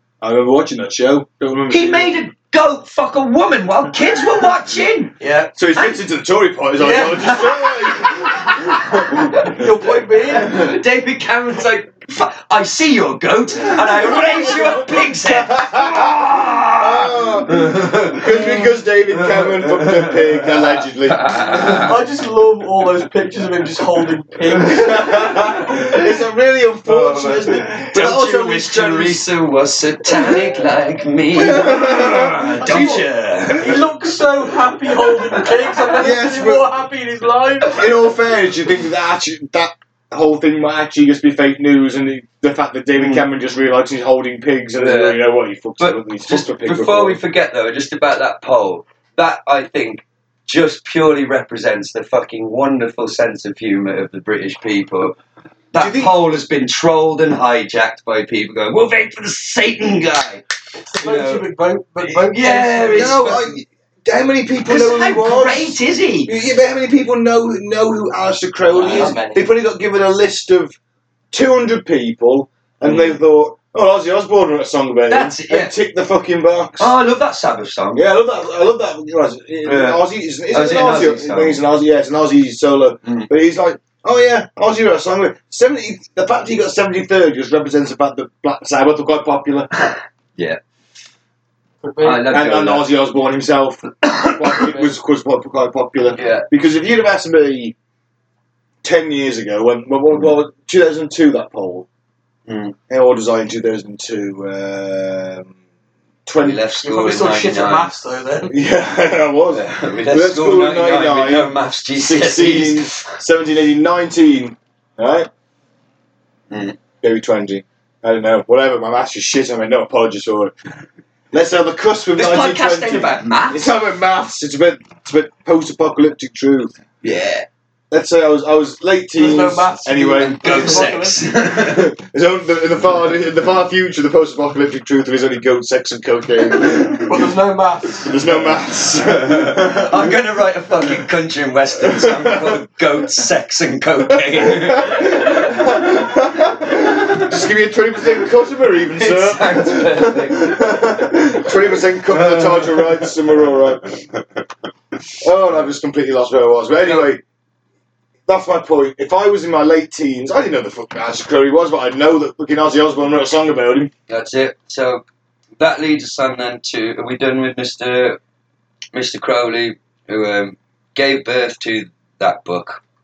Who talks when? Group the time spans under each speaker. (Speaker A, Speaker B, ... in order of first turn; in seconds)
Speaker A: 0.2-2.1, 5.5-9.5, 13.8-21.9, 24.5-29.2, 30.1-30.6, 31.3-33.1, 35.9-36.7, 37.6-47.2, 55.7-56.1, 62.9-70.8, 71.3-76.9, 77.9-89.7, 92.3-97.7, 98.8-101.9, 102.9-105.5, 106.2-106.7, 108.5-115.3, 117.0-120.5, 121.3-126.7, 127.9-130.9, 131.5-137.3, 138.0-140.1, 141.8-142.6, 144.4-154.0, 155.2-157.2, 158.3-163.9
Speaker B: 1.7-5.2, 5.7-6.0, 7.0-9.6, 10.3-22.0, 25.2-26.1, 26.9-33.9, 35.8-36.1, 43.0-43.3, 44.8-45.2, 45.8-55.1, 55.7-61.5, 62.0-63.4, 64.6-66.3, 72.8-73.1, 75.1-75.7, 76.8-78.0, 79.6-81.6, 83.0-83.3, 89.8-90.6, 92.0-92.9, 94.0-94.7, 96.1-96.5, 102.5-102.8, 106.4-107.9, 109.5-113.2, 116.5-116.8, 122.1-123.7, 127.0-127.5, 130.1-131.9, 139.0-146.0, 148.9-150.8, 152.1-153.1, 156.8-157.1, 164.1-165.0, 165.6-168.2, 168.9-172.8
Speaker C: 5.2-5.5, 6.8-7.2, 9.4-10.6, 21.7-25.2, 32.6-37.9, 60.7-63.4, 68.7-69.5, 91.8-92.5, 106.8-108.6, 129.2-131.2, 137.0-138.2